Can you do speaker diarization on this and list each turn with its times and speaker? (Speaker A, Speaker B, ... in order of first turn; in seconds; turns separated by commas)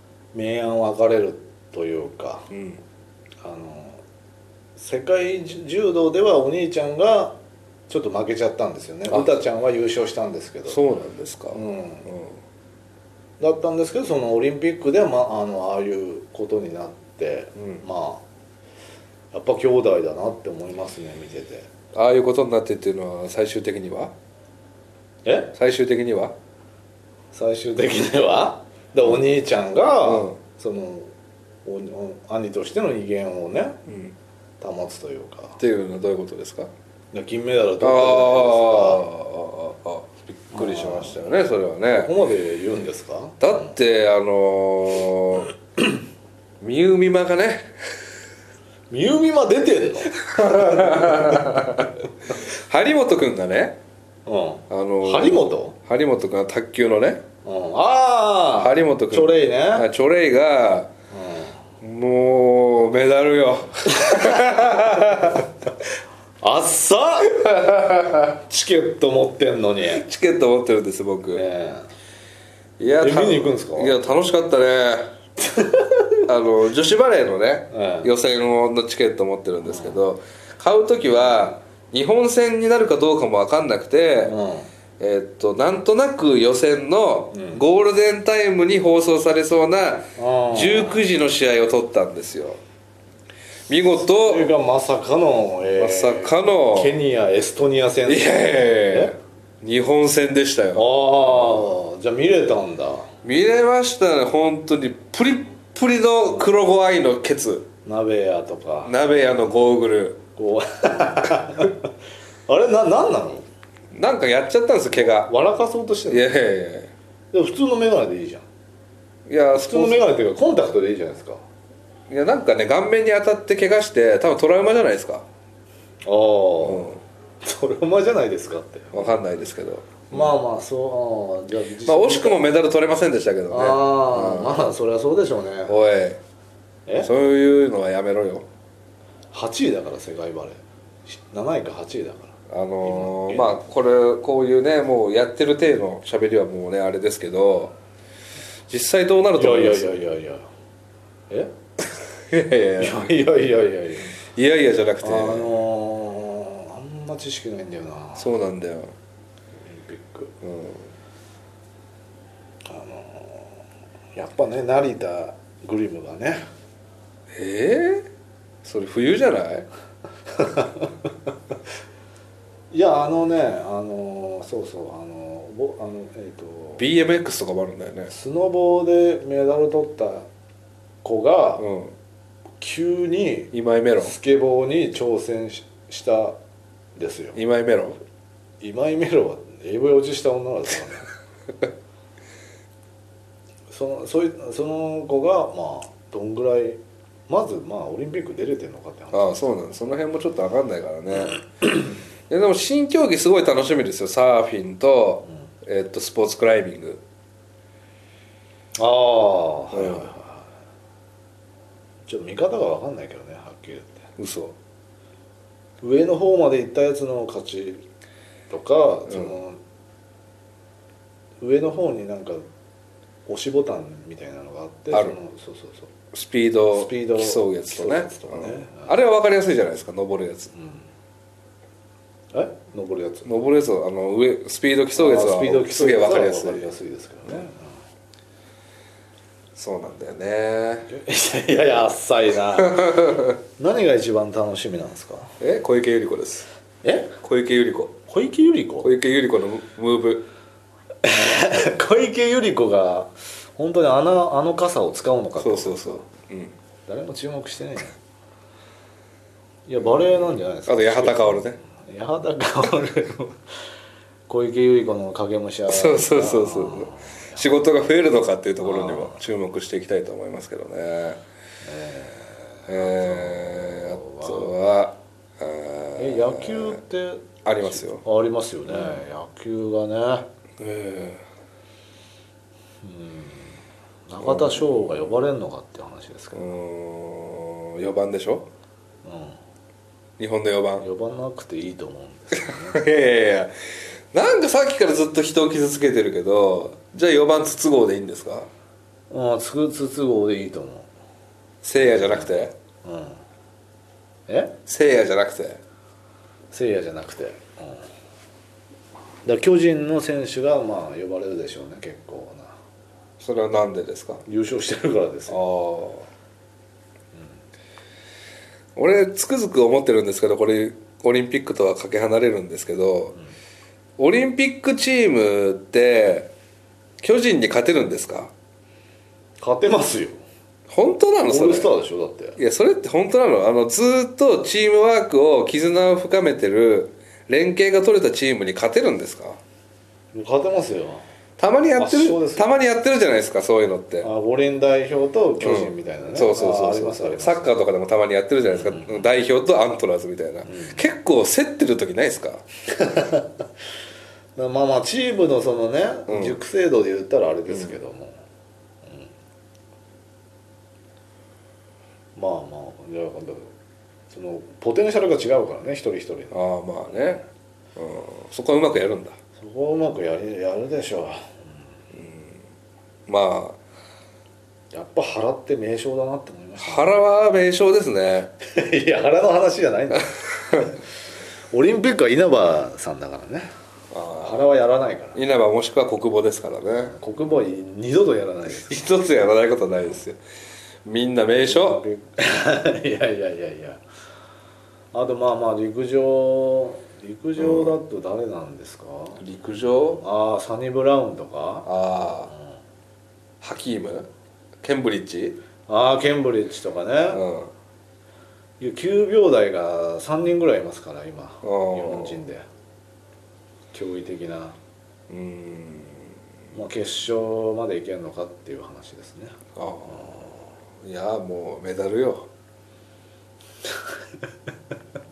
Speaker A: 0.3-2.5, Speaker B: 2.5-2.8, Speaker A: 3.4-4.0, Speaker A: 4.8-7.4, Speaker A: 7.9-10.8, Speaker B: 9.1-9.4, Speaker B: 10.7-12.4, Speaker A: 11.5-12.1, Speaker A: 13.4-18.2, Speaker B: 17.6-17.8, Speaker A: 19.3-21.7, Speaker B: 21.9-24.1, Speaker A: 25.2-25.5, Speaker B: 25.5-26.3, Speaker A: 27.3-31.1, Speaker B: 30.0-30.4, Speaker A: 31.6-33.8, Speaker B: 33.9-34.1, Speaker A: 34.6-35.6, Speaker B: 35.6-36.7, Speaker A: 37.1-39.1, Speaker B: 37.8-42.1, Speaker A: 40.5-41.2, Speaker A: 42.0-43.4, Speaker B: 43.4-45.5, Speaker B: 46.6-47.7, Speaker A: 48.9-51.2, Speaker B: 50.2-53.8, Speaker A: 54.2-55.8, Speaker B: 54.7-57.2, Speaker A: 57.4-59.9, Speaker B: 58.6-60.9, Speaker A: 61.1-61.5, Speaker B: 61.8-65.5, Speaker A: 66.4-67.3, Speaker B: 67.4-68.2, Speaker A: 68.3-70.0, Speaker B: 69.9-71.4, Speaker A: 71.3-71.9, Speaker B: 72.8-75.2, Speaker A: 73.0-74.0, Speaker A: 75.5-75.9, Speaker B: 76.3-84.3, Speaker A: 77.7-78.1, Speaker A: 79.6-80.0, Speaker A: 84.2-84.7, Speaker B: 85.0-92.6, Speaker A: 87.3-87.6, Speaker A: 90.2-91.0, Speaker B: 93.7-94.5, Speaker A: 94.1-99.1, Speaker B: 95.8-97.0, Speaker B: 98.0-100.8, Speaker A: 100.7-103.1, Speaker B: 103.2-107.7, Speaker A: 107.8-108.9, Speaker B: 108.8-110.2, Speaker A: 110.4-111.8, Speaker A: 112.5-113.4, Speaker B: 113.9-115.3, Speaker A: 114.9-116.3, Speaker B: 116.1-116.9, Speaker A: 117.3-118.4, Speaker B: 119.3-120.0, Speaker A: 119.5-121.4, Speaker B: 122.1-125.2, Speaker A: 126.0-126.9, Speaker B: 126.6-127.0, Speaker A: 127.4-129.2, Speaker B: 128.9-130.3, Speaker A: 130.1-132.6, Speaker B: 131.8-134.6, Speaker A: 133.5-135.8, Speaker B: 135.7-136.2, Speaker B: 137.0-138.4, Speaker A: 139.3-143.7, Speaker B: 142.5-147.7, Speaker B: 148.7-150.0, Speaker A: 149.3-150.5, Speaker B: 152.3-153.0, Speaker A: 152.8-154.1, Speaker B: 154.3-155.6, Speaker A: 155.0-158.3, Speaker B: 158.2-158.9, Speaker A: 159.7-160.3, Speaker B: 160.4-160.8, Speaker A: 162.7-163.6, Speaker A: 164.1-166.4, Speaker B: 167.3-168.1, Speaker B: 168.6-169.7, Speaker A: 170.4-170.9, Speaker A: 172.7-176.8, Speaker B: 176.8-178.1, Speaker A: 178.1-180.2, Speaker A: 181.0-181.7, Speaker B: 181.6-181.9, Speaker A: 182.6-186.3, Speaker B: 183.5-184.1, Speaker A: 186.9-187.4, Speaker B: 187.3-188.0, Speaker A: 188.6-191.1, Speaker A: 193.7-199.5, Speaker B: 199.1-207.0, Speaker A: 208.8-210.4, Speaker B: 209.7-210.1, Speaker A: 212.1-214.0, Speaker B: 214.2-214.6, Speaker A: 215.8-217.8, Speaker A: 218.5-219.6, Speaker A: 221.4-222.4, Speaker A: 223.3-225.9, Speaker B: 226.1-230.5, Speaker A: 226.7-228.9, Speaker A: 230.5-230.8, Speaker A: 232.3-233.3, Speaker B: 233.2-236.7, Speaker A: 234.9-237.7, Speaker B: 239.5-240.9, Speaker A: 240.9-243.1, Speaker B: 242.6-243.4, Speaker A: 243.6-245.3, Speaker B: 245.4-246.5, Speaker A: 246.8-247.1, Speaker B: 247.2-248.0, Speaker A: 248.1-248.9, Speaker B: 248.8-250.2, Speaker A: 251.0-256.0, Speaker B: 255.4-256.5, Speaker A: 256.9-257.9, Speaker A: 259.7-263.4, Speaker B: 260.2-261.6, Speaker A: 264.3-267.5, Speaker B: 265.7-271.2, Speaker A: 268.6-269.2, Speaker A: 271.6-274.6, Speaker B: 272.6-276.8, Speaker A: 276.0-280.3, Speaker B: 277.4-278.0, Speaker B: 278.7-279.0, Speaker B: 280.6-281.2, Speaker A: 282.8-283.6, Speaker A: 284.1-286.5, Speaker B: 284.2-284.8, Speaker B: 286.3-288.5, Speaker A: 289.0-289.4, Speaker B: 290.2-290.9, Speaker A: 290.8-292.8, Speaker B: 292.3-293.5, Speaker B: 294.1-298.5, Speaker A: 299.1-300.9, Speaker B: 301.6-302.5, Speaker A: 301.8-303.2, Speaker A: 304.3-304.6, Speaker B: 304.6-305.6, Speaker A: 306.5-307.9, Speaker A: 309.2-312.5, Speaker B: 313.2-314.2, Speaker A: 314.2-315.4, Speaker B: 315.3-316.1, Speaker B: 318.8-323.1, Speaker B: 324.0-326.3, Speaker B: 327.0-328.3, Speaker A: 329.4-330.1, Speaker B: 330.7-331.7, Speaker A: 331.2-332.4, Speaker B: 332.4-339.4, Speaker A: 340.1-341.0, Speaker B: 341.4-344.1, Speaker A: 341.8-342.5, Speaker A: 344.0-347.4, Speaker B: 345.4-352.4, Speaker A: 348.5-349.1, Speaker A: 350.4-350.9, Speaker A: 352.8-353.2, Speaker A: 354.4-358.2, Speaker B: 356.1-356.4, Speaker A: 362.1-363.5, Speaker A: 364.1-366.4, Speaker B: 366.3-367.2, Speaker B: 367.8-369.1, Speaker A: 369.4-371.4, Speaker B: 371.9-372.4, Speaker B: 373.1-373.6, Speaker A: 374.7-376.9, Speaker B: 376.6-378.3, Speaker A: 378.4-380.8, Speaker A: 381.5-383.5, Speaker B: 383.9-384.4, Speaker A: 384.2-385.2, Speaker B: 385.1-386.9, Speaker A: 386.8-388.7, Speaker B: 388.5-390.2, Speaker B: 390.8-391.8, Speaker A: 391.4-393.8, Speaker A: 394.9-399.2, Speaker B: 397.4-397.8, Speaker B: 399.2-400.0, Speaker A: 399.7-401.7, Speaker B: 401.6-402.3, Speaker B: 403.4-404.1, Speaker B: 404.6-405.4, Speaker A: 405.7-407.2, Speaker B: 407.1-407.5, Speaker A: 408.6-412.4, Speaker B: 411.4-412.2, Speaker A: 413.7-414.6, Speaker B: 415.1-416.1, Speaker A: 416.5-419.4, Speaker B: 419.6-422.3, Speaker A: 419.9-420.4